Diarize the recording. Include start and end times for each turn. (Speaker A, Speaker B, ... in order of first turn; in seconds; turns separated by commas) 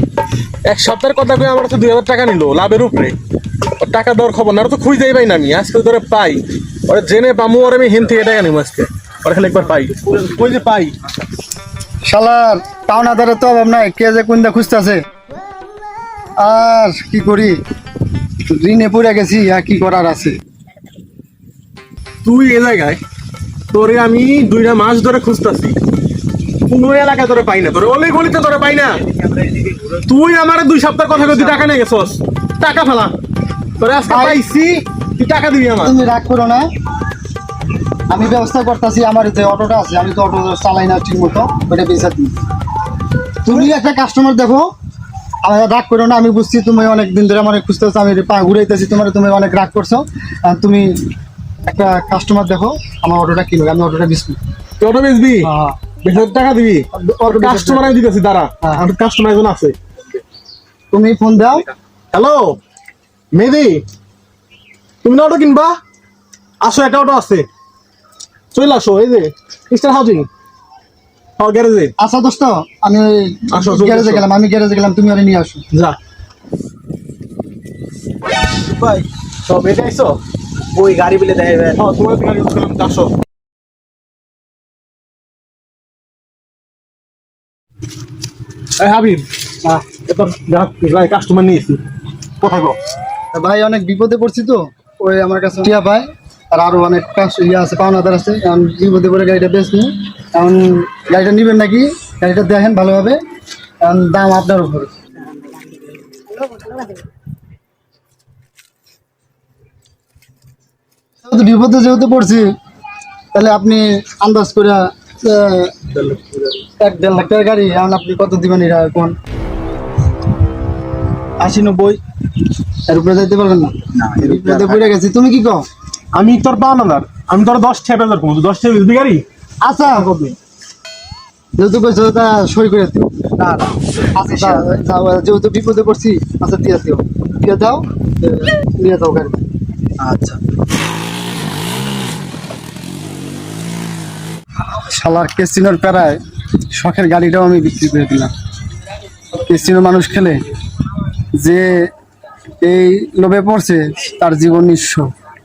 Speaker A: 0.7-3.1, Speaker A: 3.8-10.9, Speaker B: 12.1-15.0, Speaker B: 16.4-17.6, Speaker B: 18.5-20.4, Speaker A: 22.2-23.0, Speaker A: 23.7-25.8, Speaker A: 26.7-29.0, Speaker A: 29.6-33.1, Speaker A: 33.8-36.0, Speaker B: 34.1-34.4, Speaker B: 35.8-36.7, Speaker B: 38.1-42.4, Speaker B: 43.4-44.7, Speaker B: 45.4-51.0, Speaker B: 51.6-54.4, Speaker A: 54.8-55.5, Speaker B: 55.4-55.8, Speaker A: 56.0-59.8, Speaker B: 56.9-58.0, Speaker B: 60.9-61.7, Speaker A: 62.1-62.6, Speaker A: 63.3-63.8, Speaker A: 65.0-65.7, Speaker A: 66.6-67.5, Speaker A: 68.5-70.3, Speaker A: 71.4-71.9, Speaker B: 72.0-75.6, Speaker A: 73.5-74.3, Speaker A: 75.7-76.0, Speaker C: 78.8-79.0, Speaker A: 79.5-80.2, Speaker C: 80.7-81.8, Speaker A: 81.7-83.1, Speaker A: 88.8-89.3, Speaker A: 89.9-91.8, Speaker A: 92.4-92.8, Speaker B: 93.3-103.2, Speaker B: 103.8-104.9, Speaker B: 111.2-112.5, Speaker B: 113.3-115.8, Speaker B: 116.8-119.2, Speaker B: 121.4-122.0, Speaker B: 122.9-125.7, Speaker C: 123.9-124.9, Speaker A: 126.1-129.2, Speaker B: 129.6-130.1, Speaker B: 131.6-133.3, Speaker C: 133.4-133.8, Speaker B: 134.2-139.4, Speaker C: 134.3-134.8, Speaker C: 140.0-140.4, Speaker B: 144.8-146.2, Speaker B: 146.7-148.3, Speaker B: 149.4-150.4, Speaker B: 151.4-151.9, Speaker B: 152.6-155.1